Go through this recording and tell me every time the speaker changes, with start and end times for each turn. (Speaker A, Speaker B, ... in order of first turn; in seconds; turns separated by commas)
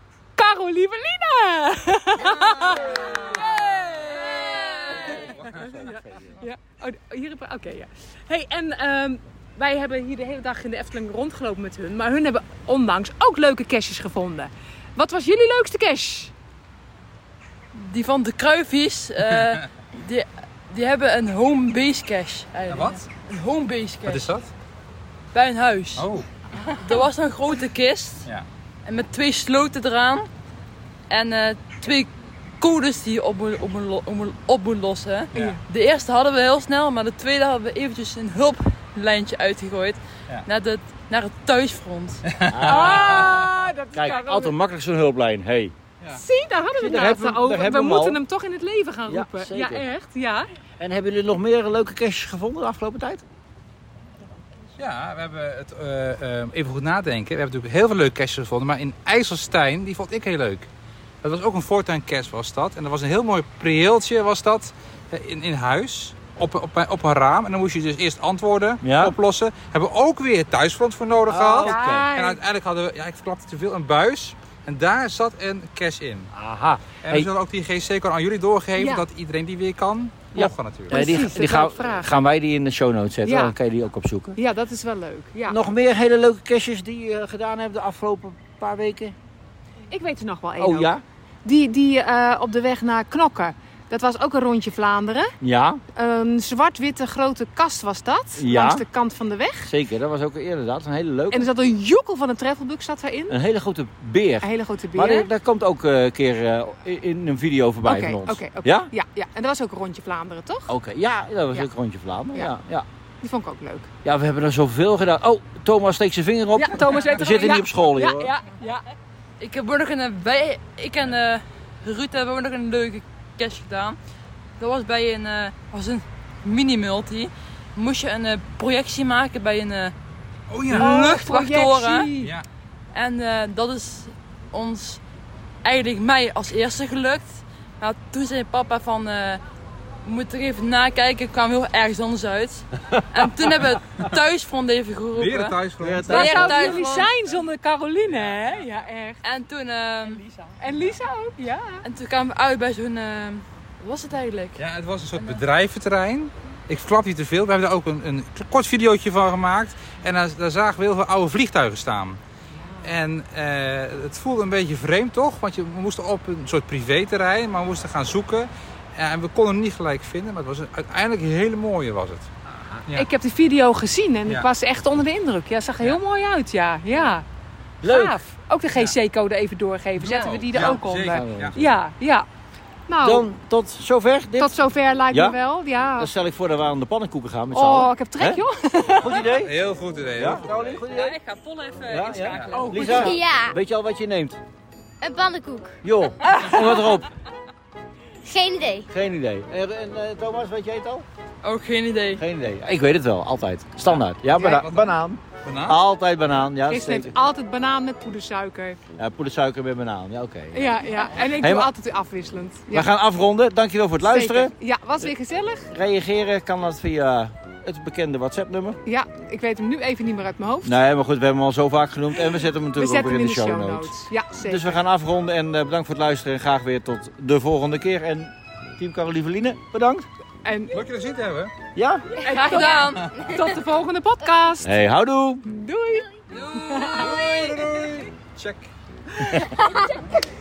Speaker A: 0.3-16.3, Speaker B: 17.8-24.2, Speaker C: 22.7-23.0, Speaker C: 24.0-24.5, Speaker B: 25.3-26.1, Speaker C: 26.0-26.2, Speaker B: 26.7-28.3, Speaker B: 28.9-30.2, Speaker B: 31.1-32.1, Speaker B: 32.6-42.3, Speaker C: 42.4-43.4, Speaker D: 42.5-43.4, Speaker A: 42.6-44.5, Speaker D: 43.9-45.7, Speaker A: 46.1-50.5, Speaker D: 46.8-48.2, Speaker D: 49.1-49.8, Speaker D: 50.8-53.2, Speaker C: 54.8-60.7, Speaker C: 61.2-76.3, Speaker D: 68.8-69.2, Speaker D: 71.3-72.1, Speaker A: 71.6-72.4, Speaker D: 76.3-77.3, Speaker C: 77.0-81.1, Speaker A: 78.8-79.0, Speaker D: 80.3-84.4, Speaker A: 80.9-82.1, Speaker A: 83.2-83.5, Speaker A: 84.4-85.6, Speaker D: 85.5-89.2, Speaker A: 89.9-90.9, Speaker D: 90.6-91.0, Speaker A: 91.4-95.3, Speaker D: 95.4-95.8, Speaker A: 95.9-99.7, Speaker D: 98.4-98.8, Speaker D: 99.7-101.5, Speaker A: 101.3-103.3, Speaker D: 103.3-108.9, Speaker A: 104.4-105.3, Speaker A: 107.8-110.7, Speaker D: 110.7-112.8, Speaker A: 113.2-113.9, Speaker D: 114.0-118.3, Speaker A: 116.5-118.8, Speaker B: 119.4-124.0, Speaker B: 124.6-129.9, Speaker C: 130.5-131.3, Speaker A: 130.7-132.3, Speaker B: 130.8-132.2, Speaker C: 132.2-132.4, Speaker B: 132.9-135.0, Speaker B: 135.6-139.4, Speaker B: 140.0-147.1, Speaker C: 145.1-146.3, Speaker D: 145.8-146.8, Speaker A: 146.1-149.2, Speaker B: 149.2-150.2, Speaker A: 150.6-151.8, Speaker B: 151.8-154.6, Speaker C: 154.6-162.2, Speaker B: 155.2-155.4, Speaker C: 162.8-172.3, Speaker A: 172.9-177.2, Speaker D: 177.8-178.2, Speaker A: 177.8-182.2, Speaker C: 180.0-181.6, Speaker D: 181.1-181.7, Speaker A: 182.9-183.2, Speaker D: 183.0-184.6, Speaker A: 184.4-186.1, Speaker D: 185.1-185.4, Speaker D: 186.0-188.4, Speaker A: 187.5-189.2, Speaker D: 188.9-189.6, Speaker C: 189.2-190.8, Speaker D: 190.2-191.2, Speaker B: 190.9-192.6, Speaker D: 191.9-194.4, Speaker C: 192.3-192.6, Speaker A: 192.4-193.1, Speaker E: 192.9-193.6, Speaker E: 195.0-195.8, Speaker D: 195.8-197.1, Speaker E: 198.2-198.9, Speaker D: 198.9-201.0, Speaker B: 201.4-202.2, Speaker D: 202.2-207.1, Speaker A: 204.4-204.7, Speaker C: 204.4-204.9, Speaker C: 205.4-205.8, Speaker A: 206.7-208.8, Speaker D: 209.0-211.7, Speaker A: 210.5-212.9, Speaker D: 212.7-215.1, Speaker A: 214.0-215.7, Speaker D: 215.7-218.8, Speaker A: 218.8-220.7, Speaker D: 220.6-223.9, Speaker A: 222.8-224.8, Speaker D: 224.4-230.1, Speaker A: 230.4-230.8, Speaker C: 230.7-231.5, Speaker D: 231.7-232.1, Speaker A: 232.2-234.7, Speaker B: 232.3-233.1, Speaker D: 234.6-235.4, Speaker A: 235.4-236.1, Speaker C: 236.5-238.7, Speaker A: 236.6-237.2